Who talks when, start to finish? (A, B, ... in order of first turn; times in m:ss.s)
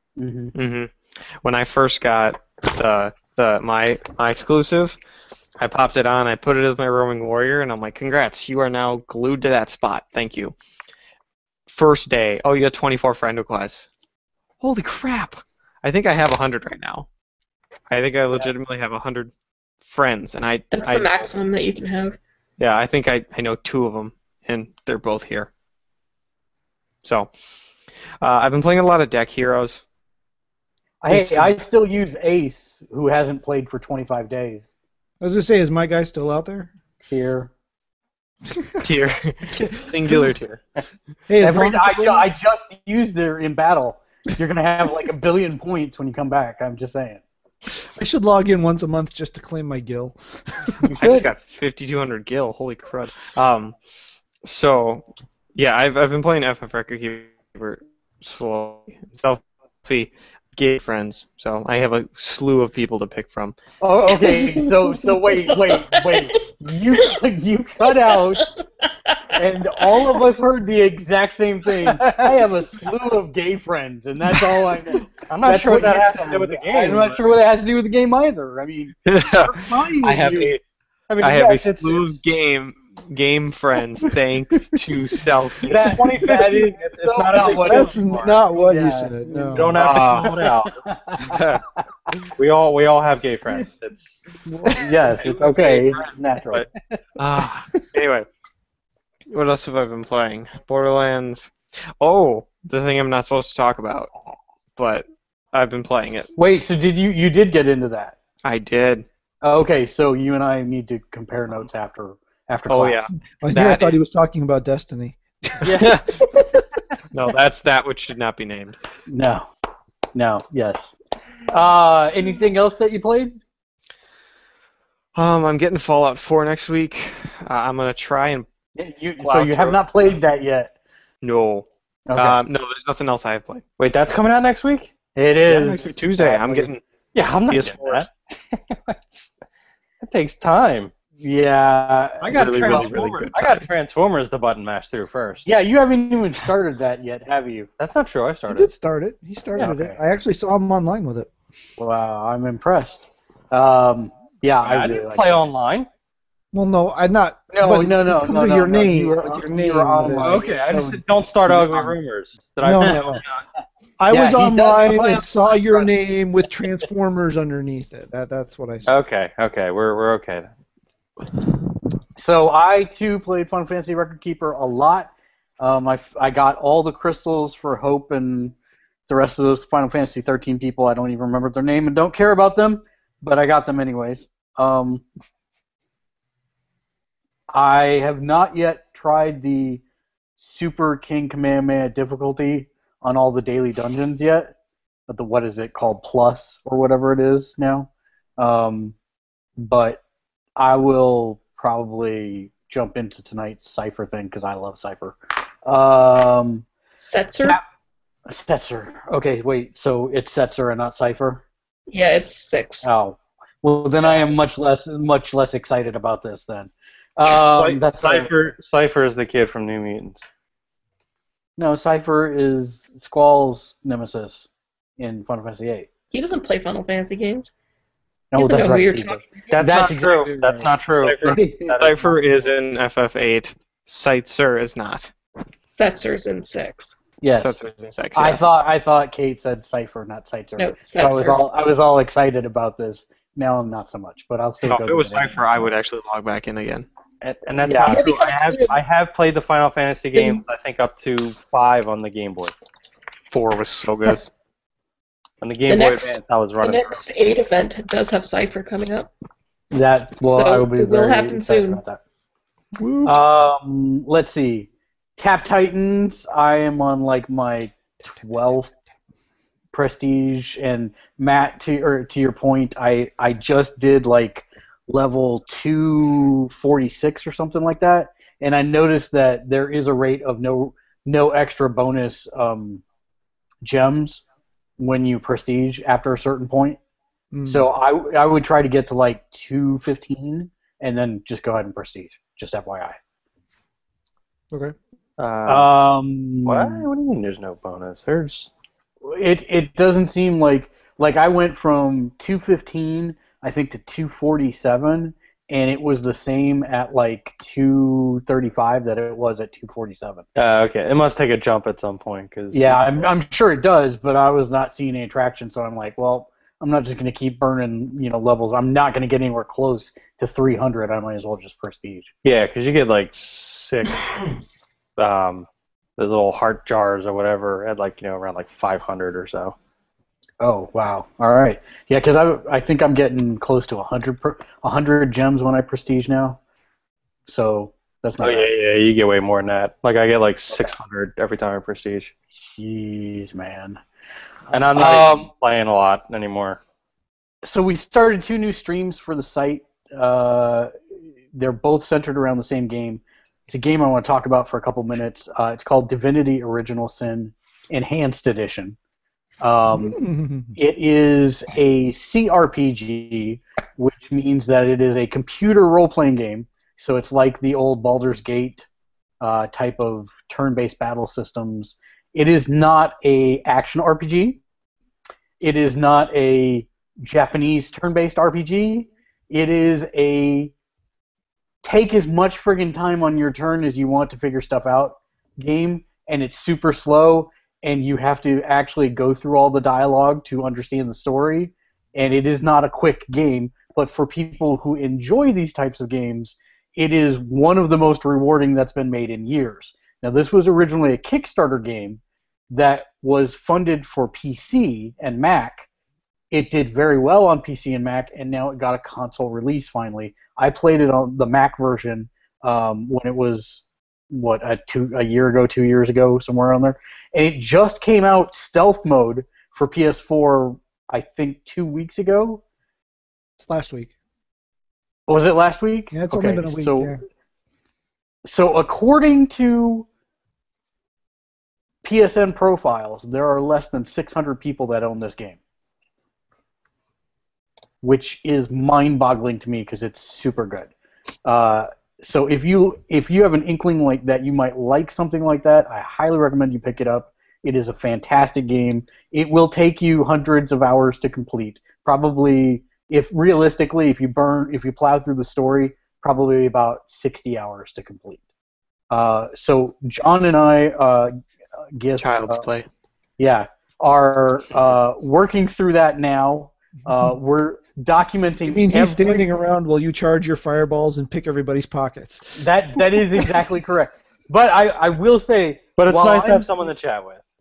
0:00.2-0:00.6 A
0:00.6-0:05.0 B
0:05.6-0:10.6 B
0:11.7-0:13.9 B
0:14.6-0:17.1 B
0:17.9-0:19.3 B
0:19.8-0:21.3 B
0:20.7-0:22.2 C
0:22.6-0:25.5 B
0:27.0-0:27.3 B
0:28.2-0:29.8 B
0:31.0-0:34.7 A
0:31.1-0:31.5 D
0:35.2-0:36.7 D
0:37.1-0:37.5 A
0:38.5-0:38.8 D
0:38.8-0:40.6 B
0:41.3-0:42.3 D
0:41.4-0:47.2 A
0:48.0-0:50.8 D
0:50.9-0:51.3 A
0:51.0-0:53.8 B
0:54.4-0:55.0 B
0:55.6-1:03.6 B
1:03.8-1:08.5 A
1:04.2-1:06.3 C
1:09.3-1:20.6 A
1:11.9-1:12.2 E
1:15.2-1:17.4 E
1:19.1-1:20.6 B
1:21.1-1:22.2 A
1:21.2-1:26.0 B
1:25.6-1:28.0 A
1:25.9-1:28.4 E
1:27.4-1:29.8 D
1:28.6-1:31.8 A
1:29.5-1:30.8 E
1:29.8-1:30.4 B
1:31.3-1:31.6 B
1:32.4-1:34.2 E
1:34.4-1:36.7 A
1:35.1-1:36.7 B
1:37.2-1:38.3 B
1:39.3-1:44.1 B
1:44.8-1:46.3 B
1:46.4-1:48.2 A
1:48.4-1:49.0 B
1:49.4-1:53.1 A
1:52.7-1:54.0 B
1:53.4-1:56.6 D
1:55.6-1:56.0 A
1:55.8-1:56.1 B
1:57.1-1:58.8 B
1:59.1-1:59.5 A
2:00.2-2:00.9 A
2:01.5-2:03.4 A
2:05.2-2:08.5 B
2:08.8-2:10.7 A
2:09.2-2:09.8 E
2:11.2-2:13.6 B
2:12.1-2:12.4 A
2:13.8-2:14.9 E
2:15.2-2:16.7 A
2:15.5-2:16.8 B
2:17.2-2:19.3 E
2:17.5-2:18.1 B
2:20.0-2:20.9 E
2:21.2-2:23.2 A
2:22.2-2:25.5 E
2:22.3-2:23.7 B
2:25.4-2:27.7 A
2:27.8-2:28.7 E
2:28.5-2:31.3 D
2:29.6-2:30.0 A
2:31.8-2:35.4 A
2:34.6-2:35.9 E
2:36.5-2:40.4 D
2:37.5-2:42.0 A
2:40.2-2:43.4 E
2:42.6-2:43.2 D
2:44.0-2:49.0 D
2:44.1-2:45.9 A
2:48.9-2:50.5 E
2:52.2-2:58.6 A
2:59.1-3:05.0 A
3:07.5-3:09.8 A
3:10.4-3:14.5 A
3:15.1-3:19.0 A
3:19.6-3:20.0 A
3:20.6-3:26.7 A
3:27.0-3:27.6 C
3:28.3-3:31.4 A
3:31.9-3:32.9 C
3:32.8-3:38.4 A
3:37.3-3:40.2 E
3:41.6-3:45.9 A
3:46.1-3:47.5 C
3:48.3-3:52.0 A
3:48.4-3:49.3 C
3:49.5-3:52.5 E
3:51.7-3:55.1 B
3:55.7-3:57.0 C
3:57.2-3:57.6 A
3:57.4-3:58.5 B
3:58.2-4:05.4 A
4:00.6-4:01.4 C
4:04.6-4:06.9 B
4:07.2-4:12.5 E
4:07.6-4:08.0 A
4:07.9-4:08.8 C
4:10.1-4:10.4 C
4:13.3-4:14.3 B
4:15.4-4:17.0 E
4:15.7-4:19.1 C
4:19.7-4:22.0 A
4:20.2-4:21.8 C
4:22.8-4:23.2 B
4:23.0-4:28.7 A
4:29.7-4:42.8 A
4:43.6-4:44.2 A
4:44.8-4:46.8 A
4:47.3-4:47.7 D
4:47.4-4:53.0 A
4:55.2-4:55.7 E
4:55.5-4:56.9 A
4:56.4-4:58.5 E
4:59.0-5:10.2 A
5:10.4-5:13.1 E
5:12.5-5:22.1 A
5:22.2-5:24.2 E
5:25.0-5:25.5 E
5:26.0-5:29.6 E
5:30.4-5:36.4 A
5:37.3-5:38.5 A
5:38.2-5:42.1 E
5:42.4-5:43.8 A
5:44.5-5:46.6 E
5:44.7-5:45.3 A
5:47.4-5:50.7 A
5:51.3-5:58.8 A
5:59.4-6:00.0 A
5:59.7-6:00.6 D
6:00.6-6:08.7 A
6:09.2-6:14.4 A
6:15.4-6:20.5 A
6:21.6-6:42.0 A
6:42.5-6:45.7 A
6:46.3-7:02.4 A
7:03.4-7:03.9 D
7:05.1-7:06.9 A
7:05.9-7:07.0 D
7:08.2-7:09.9 A
7:11.8-7:15.4 A
7:17.8-7:20.7 A
7:21.2-7:38.2 A
7:38.9-7:41.2 A
7:41.8-7:42.5 A
7:42.0-7:42.7 B
7:43.2-7:49.3 A
7:48.4-7:53.5 D
7:52.4-7:56.5 A
7:55.8-7:57.2 E